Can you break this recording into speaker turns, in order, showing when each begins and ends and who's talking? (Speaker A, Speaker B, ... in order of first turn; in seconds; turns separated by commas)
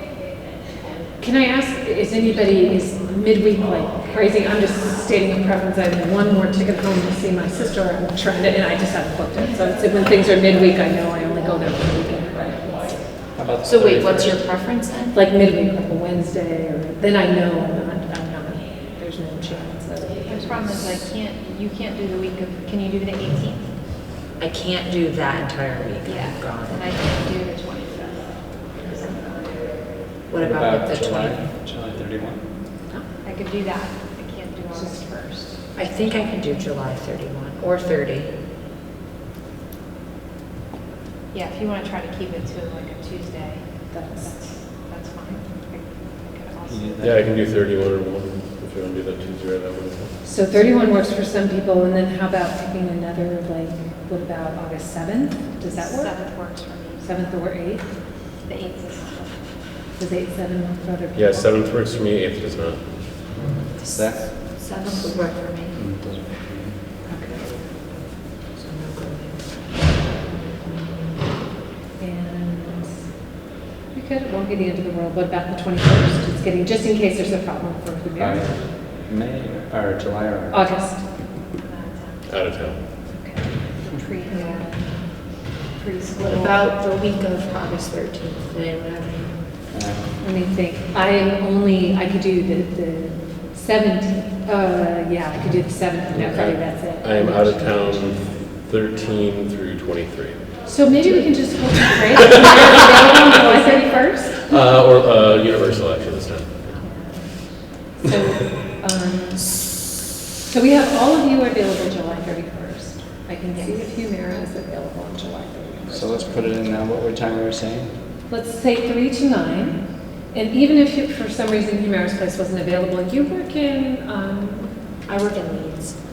Speaker A: 1.2-13.1, Speaker B: 13.3-14.4, Speaker C: 13.6-15.2, Speaker A: 15.1-20.8, Speaker D: 20.3-23.8, Speaker C: 24.4-26.8, Speaker D: 26.1-29.9, Speaker C: 30.3-31.5, Speaker B: 30.4-32.5, Speaker D: 33.2-36.5, Speaker A: 34.7-35.1, Speaker C: 35.8-38.4, Speaker D: 41.3-46.8, Speaker A: 43.9-44.3, Speaker B: 46.7-47.3, Speaker E: 47.0-50.1, Speaker A: 50.2-56.3, Speaker D: 55.7-57.3, Speaker A: 57.0-57.9, Speaker D: 58.4-59.6, Speaker A: 59.9-61.6, Speaker E: 61.1-63.0, Speaker C: 63.8-65.8, Speaker B: 63.9-64.3, Speaker B: 65.7-66.8, Speaker C: 68.5-71.2, Speaker A: 72.0-73.0, Speaker A: 73.9-78.4, Speaker B: 78.2-80.6, Speaker A: 80.5-81.0, Speaker D: 81.6-82.2, Speaker E: 82.3-83.0, Speaker A: 83.1-83.6, Speaker D: 83.9-86.6, Speaker C: 86.2-89.4, Speaker B: 89.7-90.1, Speaker A: 90.2-98.0, Speaker E: 96.1-100.6, Speaker A: 100.6-104.5, Speaker E: 102.3-102.7, Speaker E: 104.5-106.8, Speaker A: 106.9-107.3, Speaker A: 108.0-109.8, Speaker A: 110.4-116.5, Speaker D: 113.5-114.0, Speaker B: 115.9-118.0, Speaker A: 118.3-124.8, Speaker C: 125.1-126.0